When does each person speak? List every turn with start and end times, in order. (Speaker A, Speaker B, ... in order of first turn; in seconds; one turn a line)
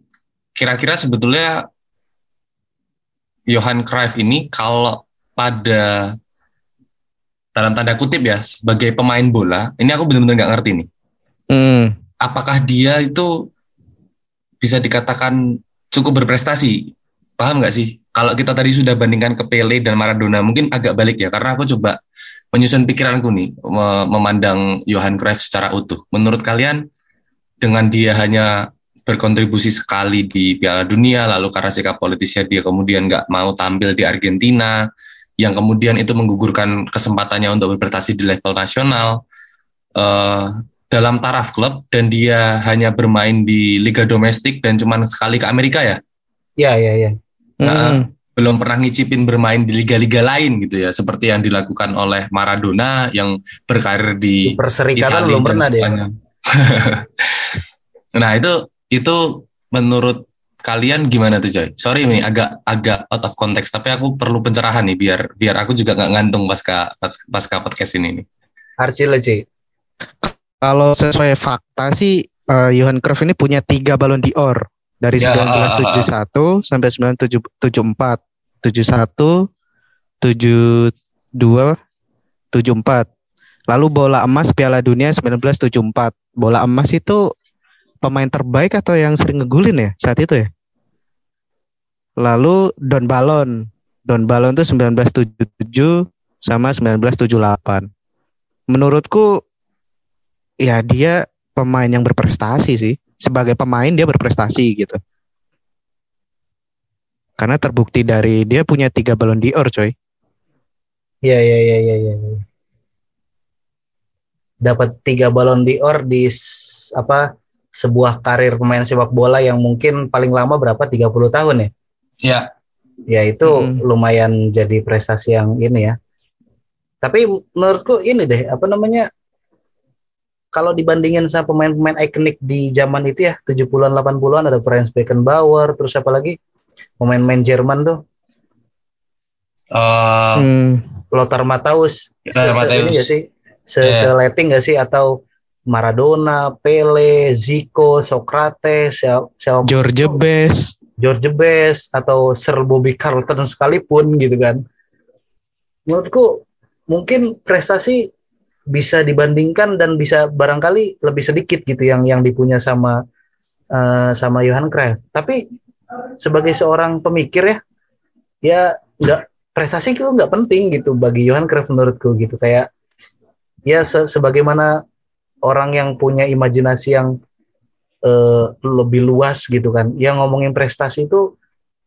Speaker A: 0.6-1.6
Speaker A: 3.5-6.1
Speaker A: 7.5-10.9
Speaker B: 11.5-11.9
Speaker A: 12.2-13.3
Speaker A: 14.6-15.4
Speaker A: 15.9-22.0
Speaker A: 22.5-26.8
Speaker A: 27.6-28.5
Speaker A: 29.1-34.8
Speaker A: 35.4-39.2
Speaker A: 40.0-46.0
Speaker C: 46.6-47.1
Speaker B: 47.6-48.1
Speaker A: 47.6-57.6
Speaker C: 54.5-55.9
Speaker A: 58.1-68.2
Speaker C: 68.8-69.4
Speaker B: 70.2-79.5
Speaker A: 75.2-76.1
Speaker B: 80.2-81.8
Speaker B: 82.5-83.1
Speaker B: 83.7-87.2
Speaker B: 88.0-90.5
Speaker B: 92.2-97.9
Speaker B: 98.7-99.4
Speaker B: 100.6-105.0
Speaker B: 107.4-109.9
Speaker C: 111.2-112.4
Speaker C: 114.6-117.2
Speaker C: 117.8-121.7
Speaker C: 123.1-126.0
Speaker B: 123.5-123.8
Speaker C: 127.0-129.1
Speaker C: 130.5-136.3
Speaker C: 137.0-138.0
Speaker A: 139.7-140.5
Speaker B: 140.3-140.8
Speaker C: 141.1-145.2
Speaker A: 142.3-143.1
Speaker A: 143.8-144.1
Speaker C: 145.7-149.8
Speaker B: 149.6-150.7
Speaker C: 151.0-154.6
Speaker C: 155.9-158.1
Speaker C: 158.7-163.0
Speaker C: 163.7-165.4
Speaker C: 166.2-167.6
Speaker C: 168.4-172.7
Speaker C: 173.7-174.7
Speaker C: 175.5-177.1
Speaker C: 178.1-181.2